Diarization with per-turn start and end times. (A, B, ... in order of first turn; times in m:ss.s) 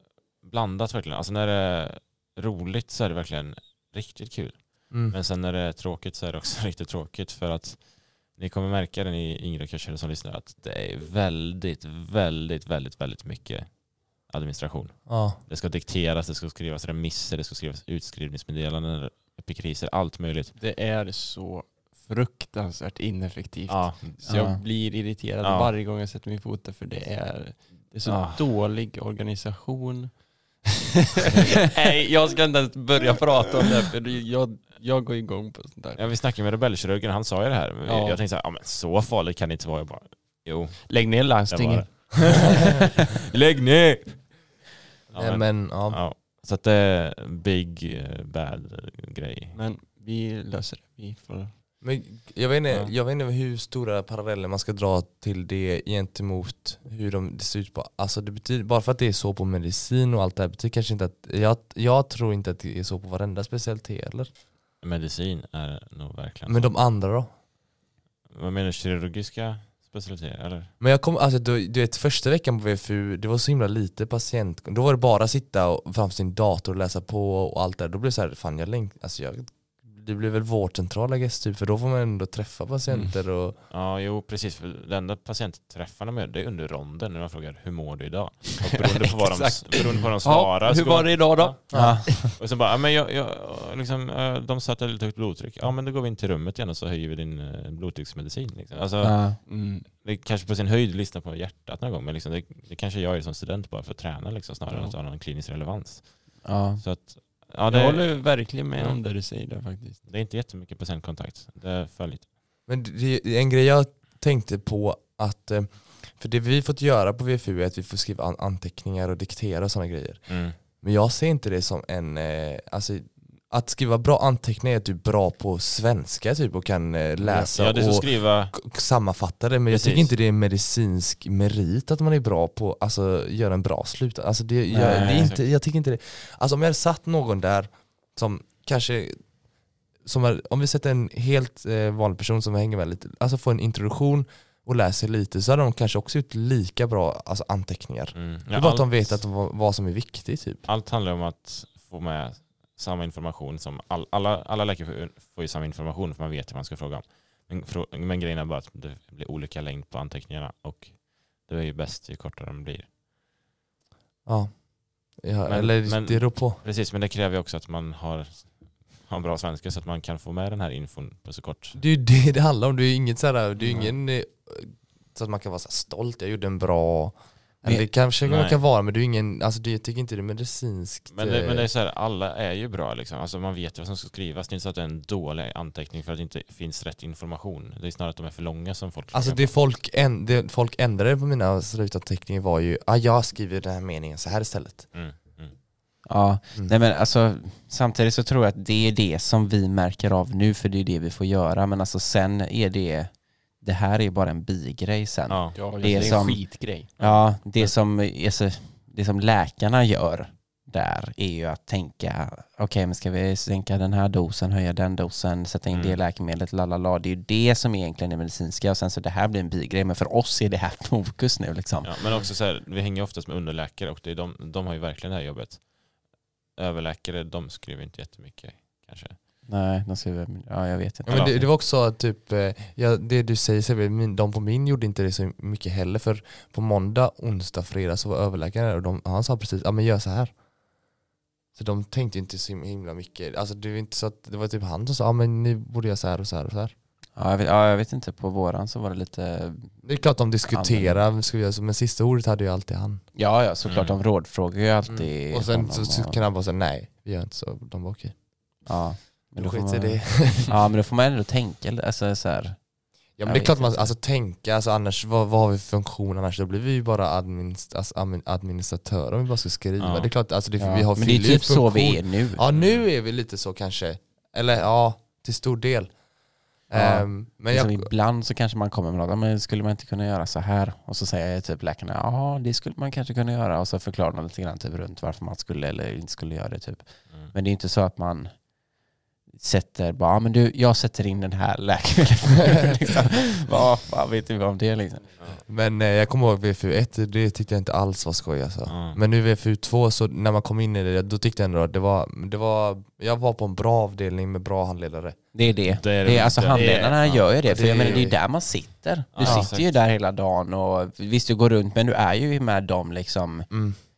0:00.4-0:20.6 A
0:04.9-0:05.2 B
0:15.1-0:15.4 B
0:20.6-0:36.1 C
0:23.7-0:24.2 A
0:24.3-0:24.6 D
0:25.4-0:25.7 A
0:28.1-0:28.4 A
0:36.0-0:44.4 A
0:37.9-0:38.2 C
0:40.9-0:42.8 C
0:45.1-0:49.6 A
0:45.2-0:46.0 B
0:49.5-0:51.5 C
0:51.8-1:04.3 B
1:04.8-1:06.8 A
1:06.5-1:07.3 B
1:08.3-1:10.7 A
1:10.8-1:23.6 B
1:22.9-1:23.1 C
1:23.7-1:49.0 A
1:28.8-1:32.3 C
1:31.7-1:32.0 B
1:31.7-1:32.1 D
1:39.0-1:39.4 D
1:39.5-1:39.9 C
1:44.7-1:45.0 C
1:46.4-1:46.8 D
1:47.7-1:50.0 C
1:50.0-1:52.3 A
1:52.7-2:19.3 B
2:00.3-2:00.6 A
2:07.2-2:08.6 A
2:09.7-2:10.1 A
2:14.7-2:15.3 D
2:14.8-2:15.4 A
2:20.0-2:30.7 B
2:28.1-2:29.2 A
2:30.7-2:42.9 A
2:44.3-2:46.6 B
2:45.4-2:51.8 A
2:51.8-3:01.7 B
2:58.2-2:58.6 A
3:01.1-3:09.5 A
3:09.1-3:14.9 B
3:14.9-3:15.5 A
3:16.0-3:42.1 D
3:25.3-3:26.4 A
3:25.6-3:26.9 C
3:27.0-3:27.3 A
3:35.7-3:36.0 A
3:41.8-3:45.7 A
3:46.5-3:49.2 A
3:49.5-3:51.5 D
3:51.1-4:00.3 B
3:51.1-3:51.4 A
4:01.6-4:06.7 B
4:07.2-4:10.0 D
4:09.8-4:13.0 B
4:10.5-4:11.0 D
4:13.2-4:16.2 D
4:13.6-4:14.0 A
4:14.9-4:18.6 B
4:18.6-4:23.9 D
4:19.3-4:20.5 B
4:23.2-4:36.0 B
4:29.8-4:30.1 A
4:30.6-4:32.4 D
4:32.5-4:32.9 A
4:36.6-4:37.9 B
4:36.7-4:48.3 D
4:49.3-4:55.1 D
4:55.4-5:05.2 B
4:58.7-4:59.0 A
5:05.3-5:13.5 D
5:05.6-5:08.0 A
5:07.4-5:08.2 B
5:09.1-5:09.7 A
5:09.2-5:09.5 B
5:13.5-5:13.8 B